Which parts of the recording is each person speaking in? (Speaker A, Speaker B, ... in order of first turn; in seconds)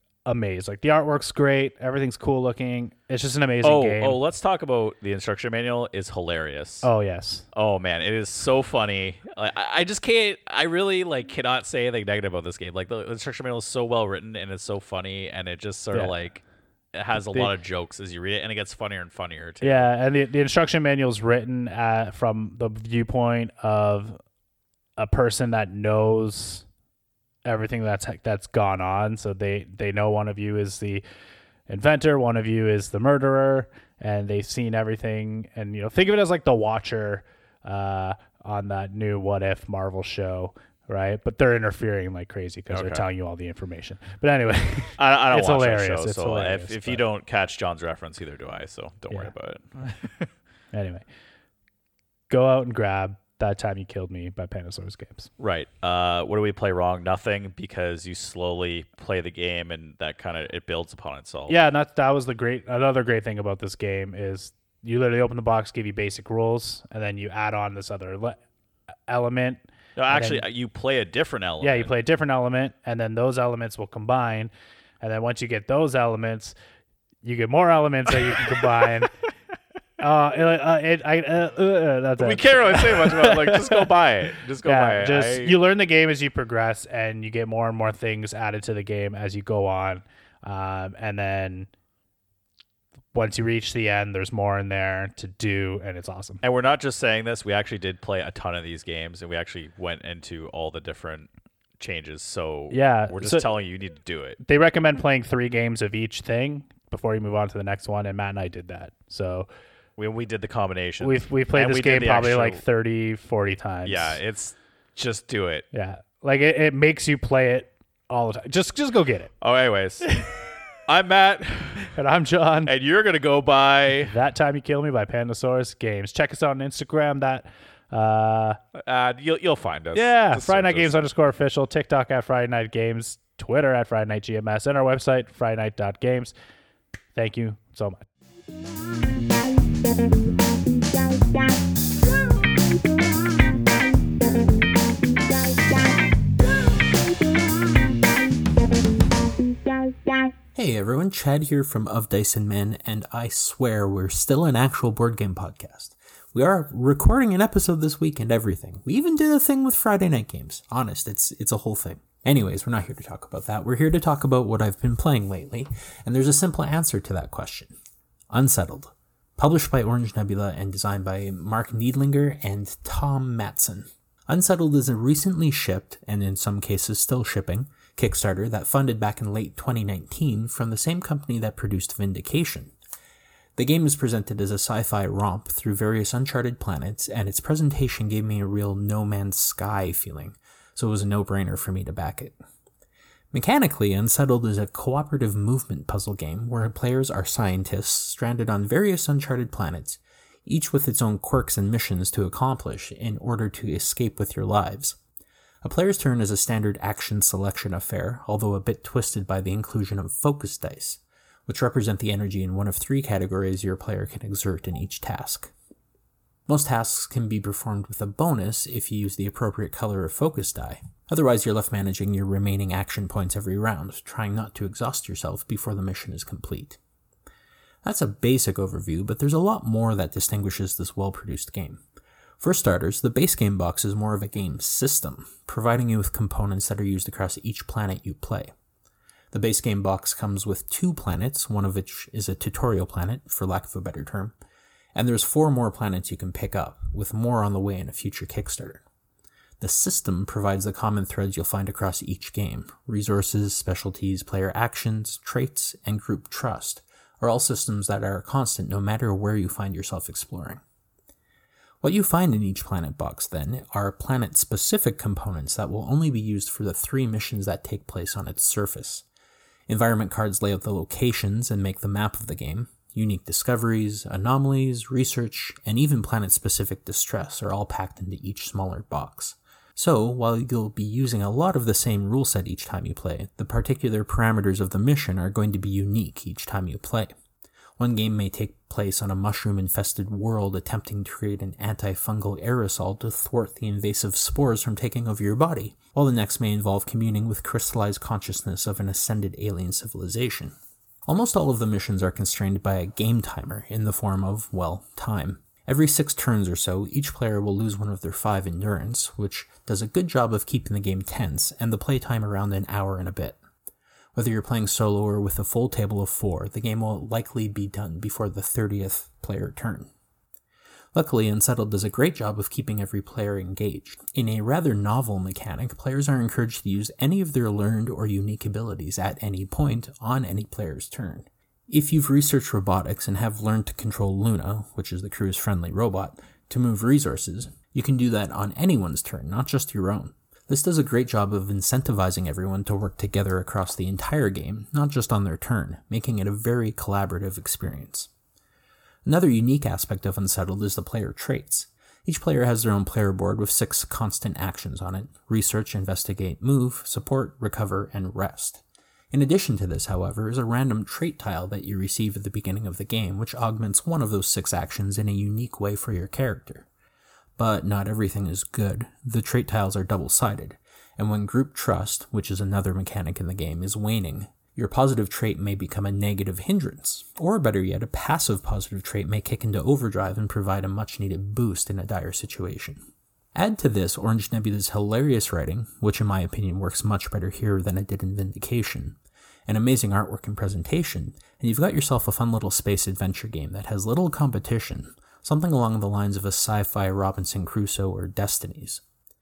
Speaker A: 0.2-4.2, 6.8-7.5, 15.9-16.4, 17.1-17.6, 19.6-24.2, 25.0-26.7, 27.4-31.0, 31.7-47.1, 49.1-50.0, 50.7-51.1, 52.3-55.3, 61.5-68.4, 69.1-70.4, 71.6-76.5, 77.2-79.1, 80.0-84.0, 84.6-91.7, 93.1-96.4, 102.7-103.5, 104.4-109.5, 111.0-114.2, 115.7-119.3, 120.0-120.3, 122.0-122.7, 124.1-128.6, 129.9-136.3, 137.1-138.1
Speaker B: 3.6-19.9, 42.7-43.1, 45.0-50.3, 55.4-61.6, 70.0-71.9, 82.2-85.6, 96.4-104.4, 110.0-112.6, 113.8-115.7, 119.4-120.1, 120.9-121.9, 122.6-124.1, 128.8-131.0
Speaker C: 150.6-167.8, 168.3-182.7, 183.6-192.4, 193.3-205.0, 205.6-215.5, 216.5-226.8, 227.8-231.8, 232.4-238.5, 239.3-244.3, 244.9-248.8, 249.6-260.6, 261.8-269.1, 269.7-287.1, 287.8-300.6, 301.1-313.4, 314.1-319.9, 320.9-348.1, 349.1-366.7, 367.4-382.8, 383.4-398.8